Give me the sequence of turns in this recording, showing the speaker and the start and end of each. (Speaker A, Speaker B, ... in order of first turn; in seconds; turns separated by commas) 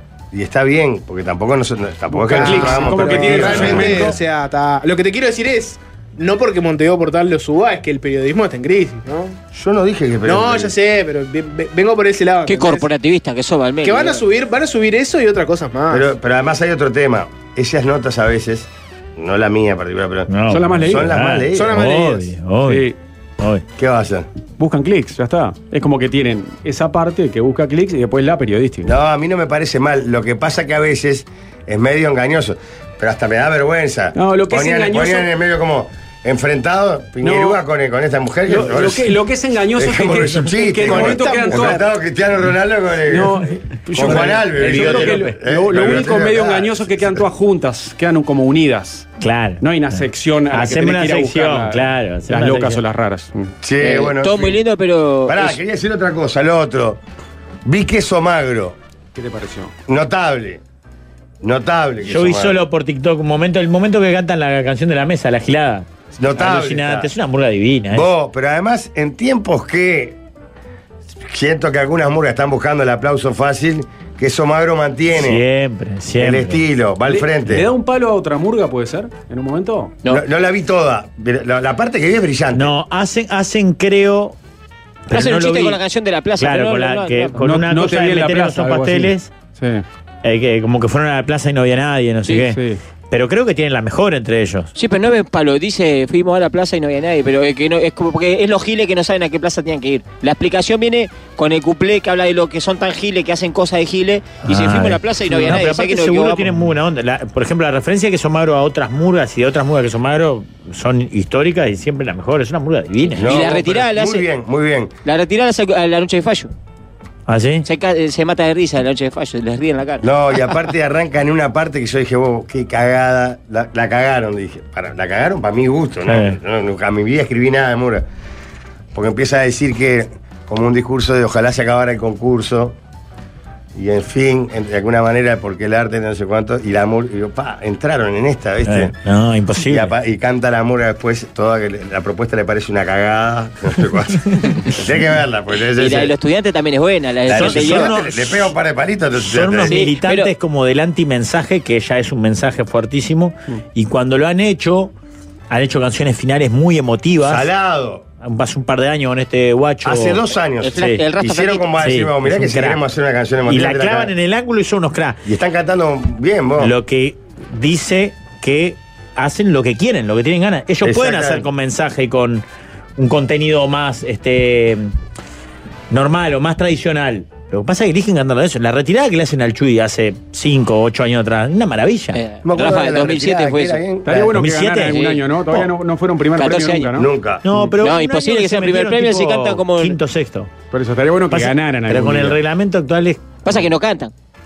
Speaker A: 0.3-4.2, Speaker B: 2.1-4.2, Speaker C: 2.3-9.4, Speaker A: 9.5-10.7, Speaker C: 10.2-12.9, Speaker D: 12.5-14.2, Speaker C: 13.8-16.1, Speaker A: 15.9-20.3, Speaker E: 20.3-22.9, Speaker B: 20.5-21.1, Speaker A: 20.9-21.8, Speaker C: 21.5-22.3, Speaker B: 22.7-23.0, Speaker E: 23.4-23.6, Speaker A: 23.8-24.3, Speaker B: 24.6-28.9, Speaker A: 28.8-39.1, Speaker B: 34.1-35.3, Speaker B: 37.2-37.6, Speaker B: 38.5-41.8, Speaker A: 39.8-47.1, Speaker C: 40.8-41.9, Speaker B: 43.1-49.1, Speaker E: 44.0-45.4, Speaker E: 49.2-52.8, Speaker B: 49.6-53.5, Speaker A: 53.6-54.6, Speaker D: 53.8-55.6, Speaker A: 55.3-57.0, Speaker A: 57.6-58.8, Speaker B: 59.1-59.7, Speaker A: 59.9-60.6, Speaker A: 61.4-62.6, Speaker E: 62.0-68.1, Speaker A: 66.2-67.1, Speaker A: 67.9-70.2, Speaker A: 71.3-75.4, Speaker E: 75.1-76.6, Speaker A: 76.2-77.7, Speaker B: 77.1-80.0, Speaker A: 80.1-82.7, Speaker E: 82.5-84.4, Speaker E: 85.1-85.8, Speaker D: 85.1-87.3, Speaker E: 86.4-89.3, Speaker B: 87.4-89.8, Speaker E: 90.2-92.6, Speaker B: 92.5-92.8, Speaker E: 93.1-94.7, Speaker D: 94.8-106.5, Speaker E: 104.5-113.4, Speaker D: 113.2-114.3, Speaker A: 113.2-114.9, Speaker D: 115.0-116.5, Speaker E: 117.3-117.7, Speaker D: 117.6-120.5, Speaker A: 120.0-128.1, Speaker E: 126.1-126.4, Speaker A: 128.9-132.8, Speaker A: 133.8-138.9, Speaker E: 138.7-139.9, Speaker A: 139.6-146.1, Speaker D: 145.7-148.0, Speaker A: 147.2-149.9, Speaker E: 147.3-148.6, Speaker E: 149.2-154.9, Speaker D: 149.6-150.3, Speaker E: 155.5-157.5, Speaker A: 157.2-158.1, Speaker E: 158.2-161.1, Speaker A: 159.8-164.1, Speaker D: 160.6-161.8, Speaker E: 161.8-162.8, Speaker E: 163.5-165.2, Speaker A: 165.3-166.7, Speaker E: 166.6-172.4, Speaker A: 170.8-171.5, Speaker E: 173.0-174.9, Speaker E: 175.9-182.2, Speaker D: 182.1-183.8, Speaker A: 182.4-184.2, Speaker B: 184.1-187.1, Speaker E: 184.2-185.1, Speaker D: 184.9-185.2, Speaker D: 186.4-186.9, Speaker A: 186.9-187.4, Speaker E: 187.4-190.5, Speaker D: 187.8-190.0, Speaker B: 190.7-192.4, Speaker E: 191.3-193.4, Speaker D: 193.4-194.1